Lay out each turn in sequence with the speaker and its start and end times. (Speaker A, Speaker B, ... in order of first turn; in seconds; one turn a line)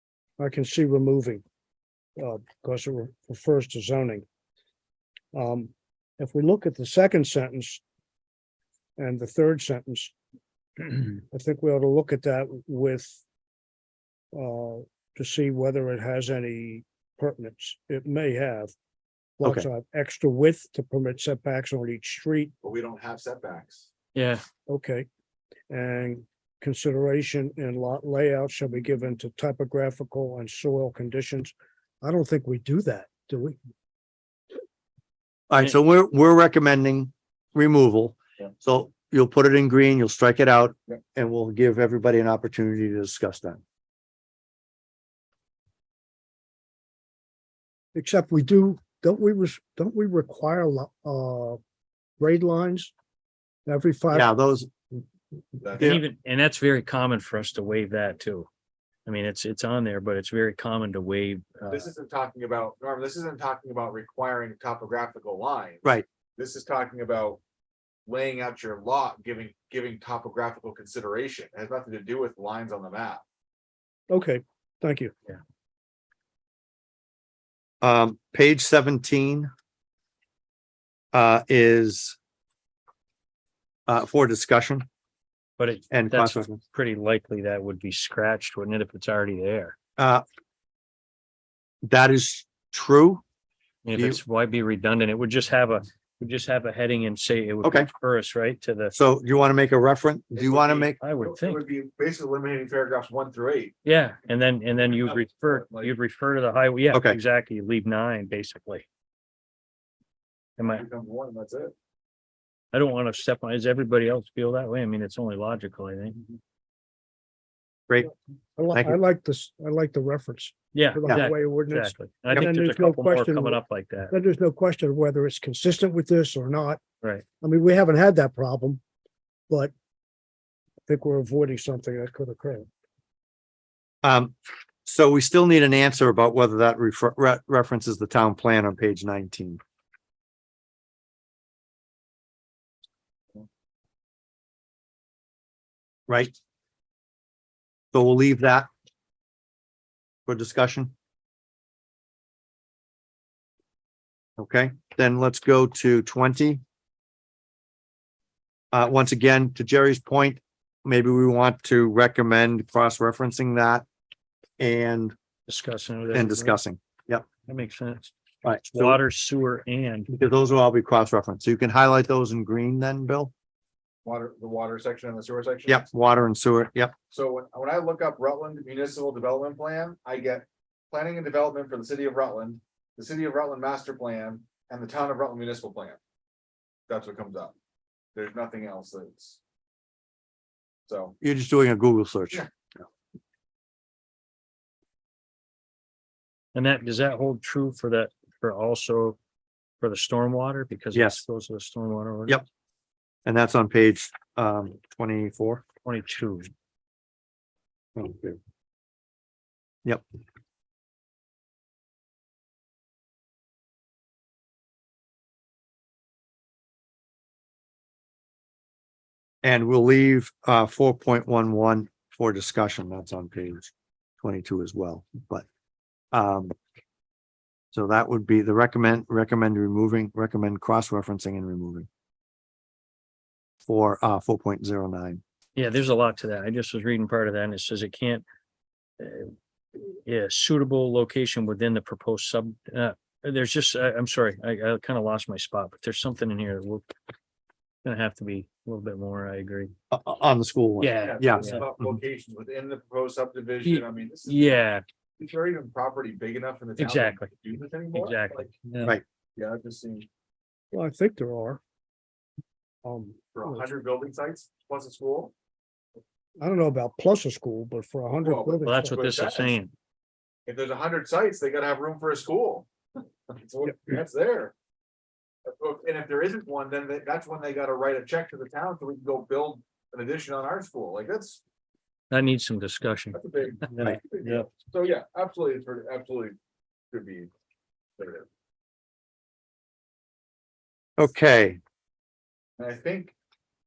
Speaker A: 0.4-1.4
Speaker A: 2.2-4.2
Speaker A: 5.3-7.8
Speaker A: 9.0-10.1
Speaker A: 10.8-13.2
Speaker A: 14.3-18.7
Speaker A: 19.4-22.5
Speaker B: 19.4-19.7
Speaker C: 22.6-23.9
Speaker D: 24.1-24.4
Speaker A: 24.7-25.1
Speaker A: 25.7-33.6
Speaker B: 35.5-43.6
Speaker A: 48.0-51.6
Speaker A: 52.2-52.9
Speaker A: 53.7-54.3
Speaker B: 54.1-54.8
Speaker C: 55.6-56.0
Speaker B: 55.8-56.0
Speaker D: 55.8-58.5
Speaker D: 59.1-61.9
Speaker C: 61.7-65.8
Speaker C: 66.4-67.4
Speaker C: 68.1-73.2
Speaker A: 74.1-75.1
Speaker B: 77.8-79.5
Speaker B: 81.1-82.2
Speaker B: 83.9-84.9
Speaker D: 85.6-89.8
Speaker B: 85.9-86.6
Speaker B: 90.0-90.2
Speaker B: 91.8-93.2
Speaker D: 93.8-98.9
Speaker B: 94.0-94.2
Speaker B: 97.6-97.9
Speaker B: 98.9-101.0
Speaker D: 100.4-101.6
Speaker C: 100.6-103.8
Speaker D: 103.8-108.8
Speaker C: 104.9-106.0
Speaker B: 106.9-107.2
Speaker D: 110.6-110.8
Speaker C: 110.7-111.7
Speaker D: 112.7-116.3
Speaker A: 118.6-126.8
Speaker B: 118.7-119.0
Speaker D: 120.7-124.1
Speaker A: 127.4-128.8
Speaker A: 130.9-132.7
Speaker B: 134.0-139.6
Speaker B: 146.1-146.3
Speaker B: 147.9-148.7
Speaker B: 150.3-150.9
Speaker B: 154.4-156.6
Speaker B: 158.7-163.8
Speaker B: 164.6-165.2
Speaker D: 165.5-166.6
Speaker B: 166.1-167.3
Speaker D: 167.4-168.1
Speaker B: 168.4-169.0
Speaker D: 168.6-170.1
Speaker B: 170.1-173.3
Speaker C: 174.0-175.8
Speaker B: 175.7-176.9
Speaker C: 177.1-186.0
Speaker C: 186.9-187.5
Speaker C: 188.2-189.4
Speaker C: 190.9-191.2
Speaker B: 191.2-192.4
Speaker D: 196.5-199.2
Speaker D: 199.8-202.4
Speaker B: 200.9-201.2
Speaker B: 203.3-205.7
Speaker D: 205.8-206.5
Speaker B: 208.0-208.4
Speaker B: 219.4-225.4
Speaker B: 226.1-226.6
Speaker B: 227.7-231.9
Speaker B: 233.7-235.2
Speaker D: 235.6-238.2
Speaker D: 239.0-246.9
Speaker D: 247.8-249.7
Speaker B: 249.9-251.5
Speaker D: 250.8-251.7
Speaker C: 251.0-254.6
Speaker D: 253.7-254.8
Speaker C: 255.2-258.5
Speaker D: 256.8-257.3
Speaker D: 257.9-258.9
Speaker C: 259.4-260.1
Speaker A: 260.7-261.6
Speaker A: 262.8-263.7
Speaker C: 263.3-265.3
Speaker A: 266.4-269.0
Speaker C: 268.2-269.6
Speaker D: 268.6-269.7
Speaker C: 270.5-272.7
Speaker C: 273.3-274.5
Speaker C: 275.5-281.4
Speaker D: 282.1-284.5
Speaker C: 283.1-286.4
Speaker C: 286.9-287.3
Speaker C: 288.0-288.3
Speaker B: 291.0-291.6
Speaker C: 292.6-293.1